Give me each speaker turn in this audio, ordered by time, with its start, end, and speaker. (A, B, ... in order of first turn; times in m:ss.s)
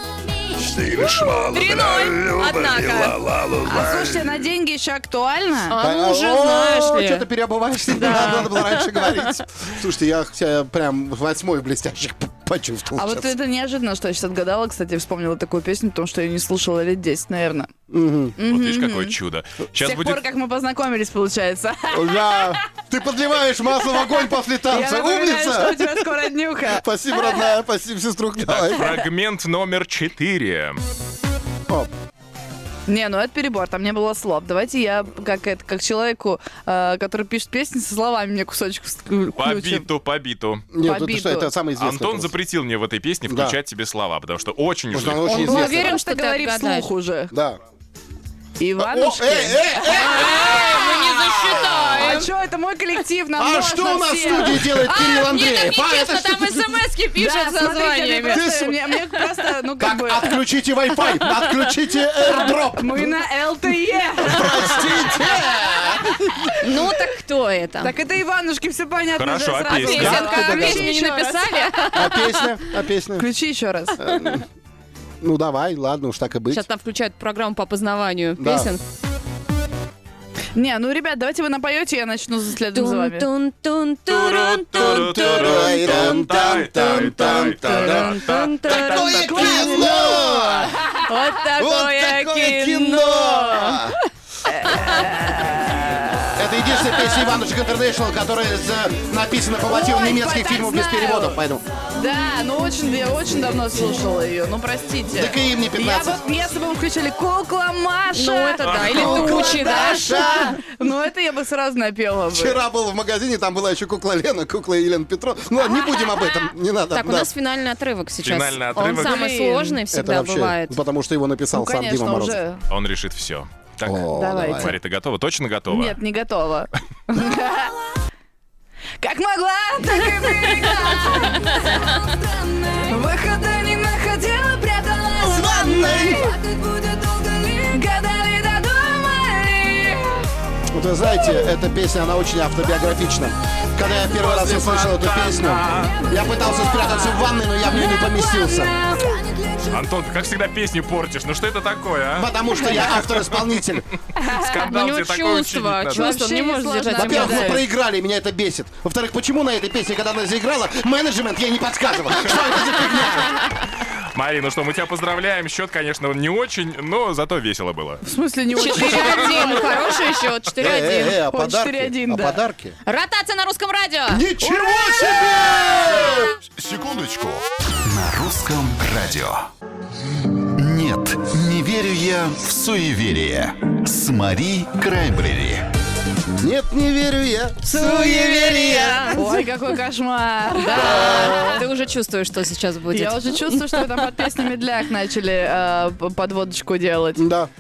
0:00.9-0:03.3 A
0:03.6-0:05.8 B
0:05.7-0:07.3 A
0:05.8-0:13.3 C
0:07.9-0:09.3 A
0:13.0-0:17.7 B
0:17.9-0:18.3 C
0:18.4-0:19.2 B
0:18.5-0:20.2 D
0:19.8-0:22.6 B
0:21.9-0:26.1 C
0:23.9-0:27.4 B
0:26.6-0:29.1 C
0:28.4-0:30.8 D
0:32.9-0:39.9 B
0:39.4-0:40.7 D
0:40.7-0:42.3 C
0:40.8-0:41.5 B
0:41.8-0:45.4 D
0:43.3-0:43.6 C
0:44.9-0:46.0 C
0:45.2-0:46.9 A
0:45.3-0:47.3 B
0:47.3-0:47.6 C
0:48.6-0:50.6 B
0:48.8-0:52.3 C
0:49.9-0:52.3 A
0:51.9-0:54.9 B
0:53.4-0:56.7 C
0:54.6-0:58.4 A
0:57.2-1:00.4 B
0:58.3-0:58.8 C
0:59.8-1:03.1 C
1:02.3-1:05.4 B
1:04.2-1:06.5 C
1:06.6-1:07.9 A
1:07.8-1:12.2 B
1:09.2-1:10.3 D
1:09.7-1:12.4 A
1:09.9-1:10.9 C
1:11.9-1:13.3 C
1:13.2-1:14.0 B
1:14.0-1:14.5 C
1:15.2-1:16.6 C
1:16.5-1:18.8 A
1:18.4-1:18.7 C
1:20.6-1:23.3 B
1:22.7-1:34.0 A
1:24.1-1:29.2 D
1:24.7-1:30.8 C
1:29.1-1:31.1 B
1:31.6-1:34.0 C
1:34.4-1:36.9 B
1:34.7-1:35.1 A
1:36.3-1:41.6 C
1:39.7-1:41.4 B
1:42.0-1:52.6 B
1:45.1-1:46.2 C
1:48.1-1:50.5 A
1:48.6-1:49.5 D
1:48.9-1:50.6 C
1:52.3-1:57.3 C
1:55.6-1:56.5 B
1:56.9-2:00.8 A
1:58.2-1:59.3 D
1:58.8-1:59.8 B
1:59.9-2:02.4 C
2:01.5-2:02.6 B
2:02.7-2:06.0 D
2:03.8-2:04.7 C
2:04.1-2:04.8 B
2:05.7-2:07.8 B
2:09.0-2:20.3 B
2:15.2-2:16.4 C
2:20.7-2:28.8 C
2:21.0-2:21.4 B
2:23.9-2:26.1 D
2:25.8-2:29.7 B
2:29.7-2:33.5 D
2:32.2-2:33.9 C
2:32.6-2:33.0 B
2:34.2-2:34.6 B
2:34.2-2:36.2 D
2:34.6-2:37.6 A
2:35.9-2:37.6 B
2:37.0-2:43.4 C
2:44.2-2:48.0 D
2:48.0-2:50.0 B
2:48.6-2:51.2 A
2:50.6-2:52.8 C
2:51.3-2:52.4 B
2:52.9-2:54.2 A
2:54.1-2:56.3 C
2:54.4-2:55.4 B
2:56.6-2:59.5 E
3:00.4-3:05.6 E
3:06.4-3:09.3 C
3:07.7-3:09.5 A
3:07.7-3:08.2 B
3:09.1-3:11.6 B
3:10.7-3:13.8 A
3:10.7-3:11.7 C
3:12.9-3:17.3 B
3:17.2-3:17.5 C